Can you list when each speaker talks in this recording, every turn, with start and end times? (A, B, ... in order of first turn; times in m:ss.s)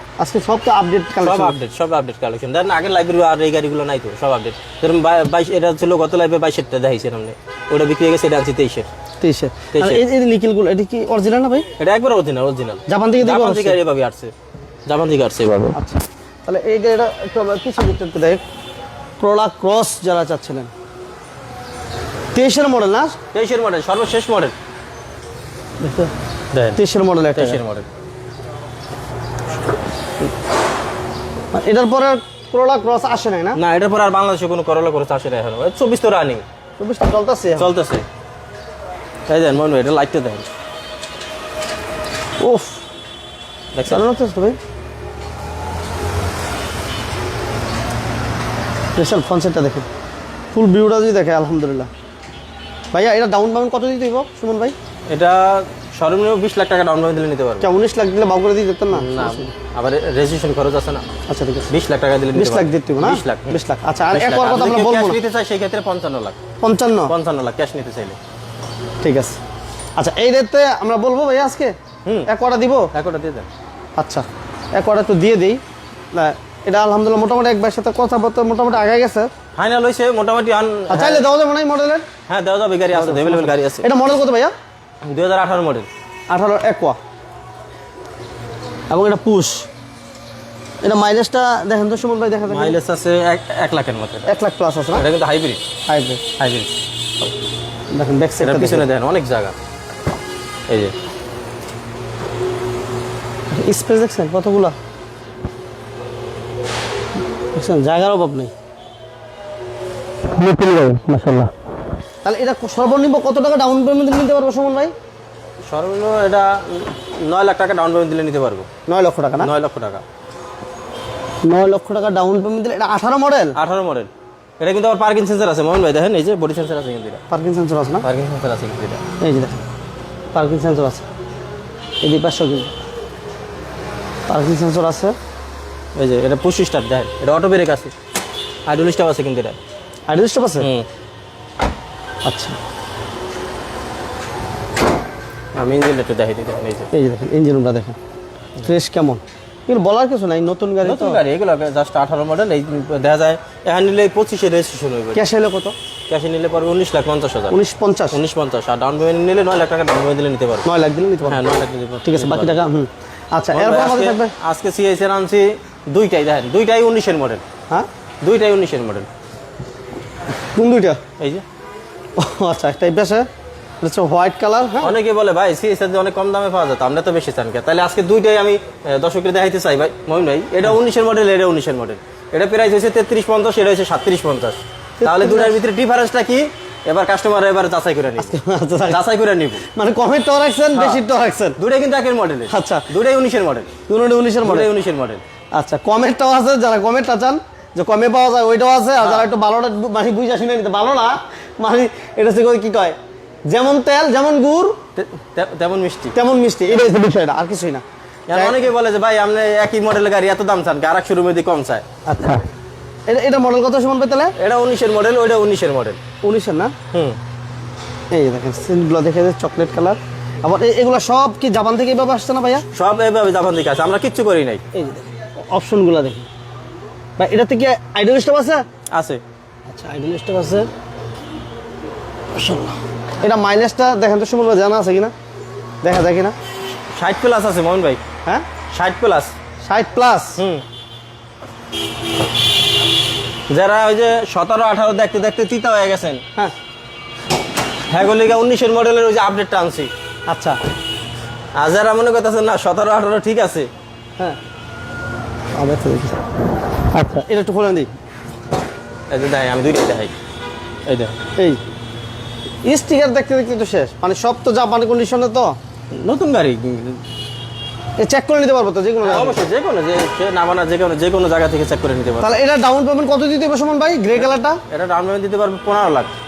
0:00.2-0:01.6 A
0:01.2-0:08.9 B
0:09.2-0:11.7 A
0:09.7-0:10.0 B
0:11.8-0:14.3 B
0:12.9-0:13.8 A
0:14.9-0:15.7 B
0:15.7-0:18.4 A
0:19.2-0:20.7 A
0:22.3-0:23.2 A
0:23.3-0:24.5 B
0:25.8-0:26.1 A
0:26.5-0:26.8 B
0:26.8-0:27.6 A
0:27.3-0:27.9 B
0:31.5-0:33.6 A
0:33.6-0:36.4 B
0:36.8-0:37.7 A
0:37.6-0:38.0 B
0:39.3-0:40.5 B
0:42.4-0:42.8 A
0:43.7-0:44.0 B
0:43.8-0:44.6 A
0:49.0-0:49.9 A
0:50.5-0:51.9 A
0:52.9-0:54.7 A
0:55.1-0:57.7 B
0:57.6-0:59.5 A
0:58.9-1:01.0 B
1:01.3-1:01.7 A
1:01.7-1:03.6 B
1:02.3-1:05.2 A
1:04.1-1:06.4 B
1:06.6-1:07.1 A
1:07.1-1:08.2 B
1:09.0-1:09.4 A
1:10.0-1:11.7 A
1:12.0-1:12.3 B
1:12.3-1:12.9 A
1:12.9-1:13.5 B
1:14.0-1:15.6 A
1:16.1-1:19.3 A
1:19.6-1:21.2 B
1:20.9-1:22.0 A
1:22.3-1:23.9 B
1:22.9-1:24.5 A
1:25.0-1:25.9 B
1:26.3-1:27.0 A
1:28.9-1:29.7 A
1:30.8-1:32.8 A
1:32.5-1:34.3 B
1:34.3-1:35.0 A
1:34.9-1:35.6 B
1:35.9-1:36.2 A
1:36.4-1:37.3 B
1:37.9-1:38.8 A
1:38.4-1:39.5 B
1:40.7-1:40.9 B
1:43.5-1:44.7 A
1:47.5-1:48.5 A
1:50.3-1:51.5 A
1:52.2-1:54.9 A
1:55.7-1:58.7 B
1:58.9-1:59.5 A
1:59.4-2:00.0 B
2:01.4-2:03.6 A
2:03.6-2:07.2 B
2:07.3-2:08.0 A
2:08.0-2:09.0 B
2:09.2-2:09.6 A
2:10.3-2:11.0 A
2:12.0-2:12.7 A
2:14.3-2:15.1 A
2:16.0-2:17.9 B
2:18.6-2:19.6 B
2:20.1-2:20.7 A
2:20.6-2:20.9 B
2:22.2-2:22.6 A
2:25.5-2:26.9 B
2:26.9-2:28.0 A
2:28.6-2:31.2 A
2:30.8-2:35.2 B
2:35.1-2:35.7 A
2:36.1-2:37.6 B
2:37.5-2:38.2 A
2:38.1-2:40.7 B
2:40.6-2:41.4 A
2:41.3-2:42.6 B
2:42.0-2:44.3 A
2:43.5-2:47.4 B
2:48.2-2:49.1 B
2:50.5-2:51.0 A
2:51.2-2:51.4 B
2:52.2-2:53.3 A
2:53.8-2:54.9 A
2:54.8-3:08.4 B
3:05.0-3:05.6 A
3:08.2-3:09.0 A
3:08.9-3:09.6 B
3:09.6-3:11.6 A
3:10.7-3:11.0 B
3:11.6-3:13.7 B
3:12.5-3:12.9 A
3:13.9-3:14.7 A
3:14.4-3:15.2 B
3:15.5-3:23.0 A
3:19.0-3:19.3 B
3:23.5-3:24.8 A
3:25.0-3:26.1 B
3:26.1-3:28.6 A
3:28.3-3:31.8 B
3:32.0-3:32.4 A
3:33.1-3:34.3 A
3:34.4-3:36.0 B
3:36.2-3:36.7 A
3:36.9-3:37.2 B
3:38.1-3:42.6 A
3:42.7-3:44.6 B
3:44.7-3:46.3 A
3:47.2-3:48.6 A
3:48.9-3:49.2 B
3:49.7-3:50.7 A
3:52.3-3:55.1 A
3:55.8-3:56.3 A
3:56.9-3:58.0 B
3:58.7-3:59.3 B
3:59.6-4:00.4 A
4:00.4-4:00.6 B
4:03.5-4:06.2 B
4:07.9-4:09.9 B
4:10.3-4:10.6 A
4:11.6-4:13.7 B
4:15.6-4:16.2 A
4:16.9-4:17.9 A
4:19.1-4:20.1 B
4:20.9-4:21.2 B
4:22.6-4:25.6 A
4:25.9-4:27.0 B
4:28.0-4:29.4 A
4:29.0-4:32.3 B
4:32.2-4:34.6 A
4:34.2-4:36.1 B